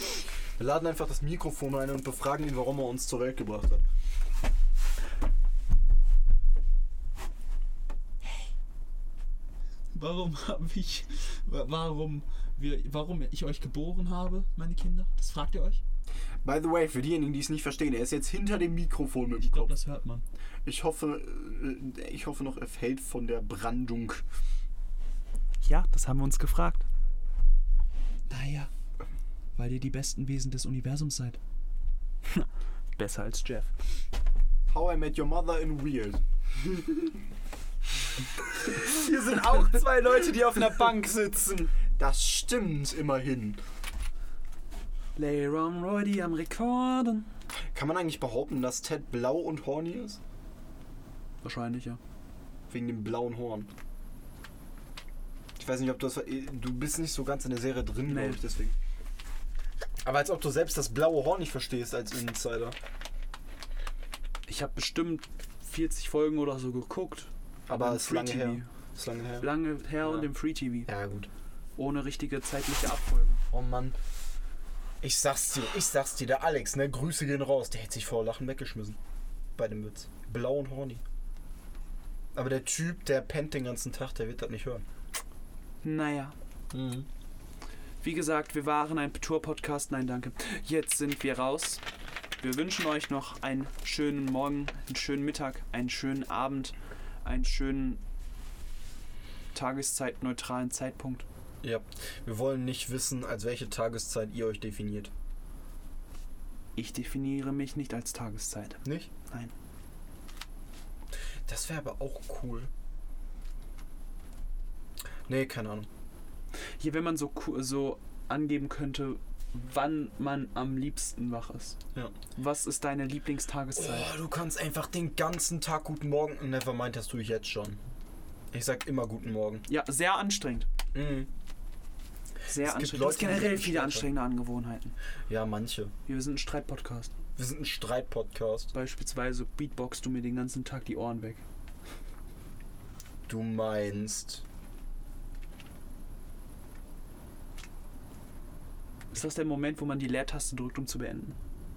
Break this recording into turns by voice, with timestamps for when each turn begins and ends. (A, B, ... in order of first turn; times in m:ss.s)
0:00.6-0:03.8 A
0:09.9-0:15.8 B
0:16.4-0:19.8 A
0:19.4-0:20.2 B
0:20.6-0:24.2 A
0:25.6-0:26.9 B
0:28.3-0:28.7 B
0:29.6-0:31.4 B
0:32.3-0:33.7 B
0:34.7-0:36.2 A
0:38.6-0:41.8 B
0:42.0-0:43.6 A
0:45.2-0:47.3 B
0:47.7-0:50.2 A
0:51.4-0:52.0 B
0:52.7-0:53.7 A
0:55.6-0:58.8 A
0:58.1-0:58.4 B
1:00.0-1:02.8 A
1:04.5-1:08.7 B
1:07.7-1:09.5 A
1:09.4-1:10.9 B
1:10.0-1:10.3 A
1:10.9-1:11.3 A
1:11.8-1:13.4 B
1:13.5-1:14.0 A
1:15.0-1:19.0 A
1:19.6-1:21.0 A
1:22.4-1:24.8 A
1:25.8-1:26.4 B
1:26.7-1:27.1 A
1:28.0-1:31.8 B
1:32.4-1:38.0 B
1:39.5-1:41.3 B
1:41.6-1:45.1 A
1:46.8-1:49.5 B
1:48.8-1:49.1 A
1:51.5-1:52.7 A
1:55.3-1:55.9 A
1:56.8-2:01.8 B
2:02.4-2:04.1 B
2:03.8-2:07.8 A
2:08.5-2:09.6 A
2:09.7-2:10.7 B
2:10.9-2:11.3 A
2:12.5-2:14.1 A
2:12.5-2:14.9 B
2:15.3-2:15.9 A
2:16.1-2:17.1 B
2:17.4-2:18.7 A
2:18.7-2:21.4 B
2:23.3-2:24.4 A
2:29.1-2:31.4 B